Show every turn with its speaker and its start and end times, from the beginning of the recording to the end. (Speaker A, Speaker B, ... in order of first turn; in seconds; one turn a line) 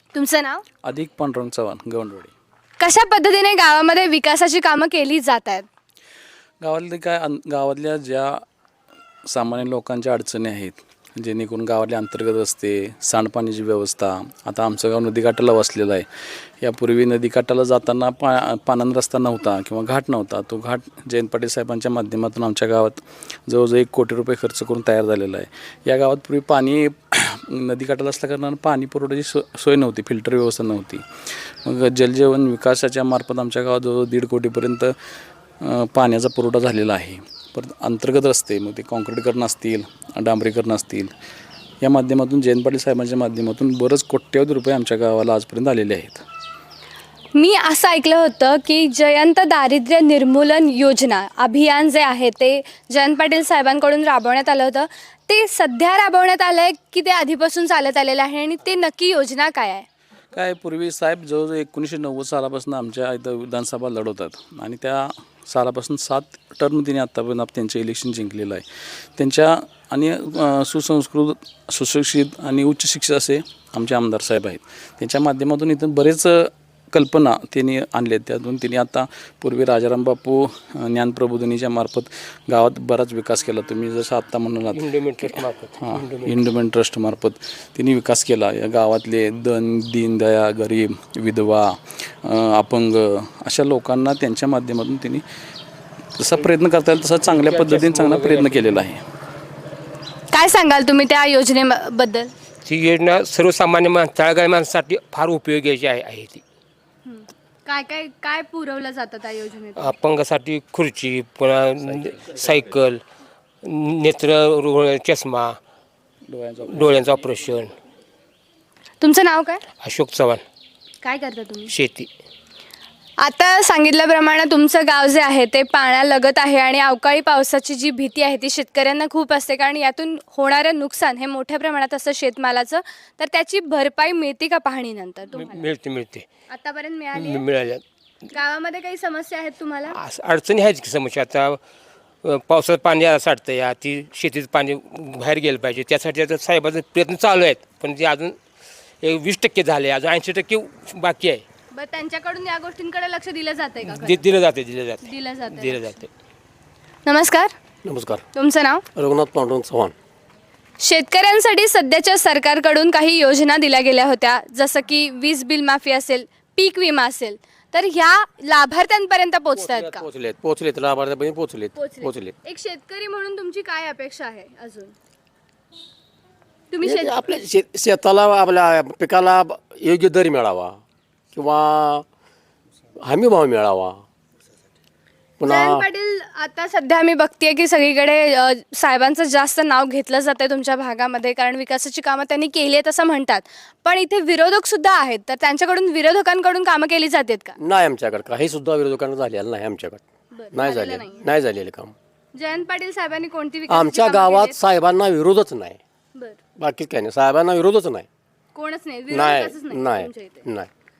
Speaker A: 0.1-0.6
Speaker B: 0.8-2.3
Speaker A: 2.8-5.7
Speaker B: 6.6-8.4
Speaker B: 9.3-16.1
Speaker B: 16.6-34.9
Speaker B: 35.6-41.1
Speaker B: 41.8-46.2
Speaker A: 47.3-59.9
Speaker B: 60.3-95.2
Speaker C: 84.7-86.5
Speaker B: 96.2-99.0
Speaker C: 97.2-98.8
Speaker A: 100.3-102.3
Speaker C: 102.6-106.4
Speaker A: 107.0-109.9
Speaker C: 109.7-113.0
Speaker C: 113.6-115.6
Speaker B: 116.3-117.0
Speaker C: 116.6-117.7
Speaker A: 119.0-119.6
Speaker C: 119.8-120.4
Speaker A: 121.0-121.7
Speaker C: 121.7-122.1
Speaker A: 123.2-135.6
Speaker C: 135.3-136.2
Speaker A: 136.5-137.4
Speaker C: 137.1-137.8
Speaker A: 138.3-139.9
Speaker C: 139.9-141.6
Speaker C: 142.2-148.4
Speaker C: 149.0-151.4
Speaker A: 151.7-154.2
Speaker C: 153.8-156.1
Speaker A: 155.0-156.0
Speaker A: 157.1-157.5
Speaker D: 157.8-158.2
Speaker A: 158.3-158.8
Speaker D: 158.9-159.9
Speaker A: 160.8-170.0
Speaker D: 169.5-172.3
Speaker A: 171.7-174.9
Speaker A: 176.7-177.2
Speaker D: 176.8-180.8
Speaker D: 181.3-182.1
Speaker D: 183.0-184.0
Speaker D: 185.4-185.8
Speaker A: 185.4-197.5
Speaker D: 197.6-201.9
Speaker A: 200.3-201.2
Speaker A: 202.3-204.6
Speaker D: 203.7-205.8
Speaker D: 206.6-208.1
Speaker A: 208.5-210.4
Speaker D: 209.1-210.7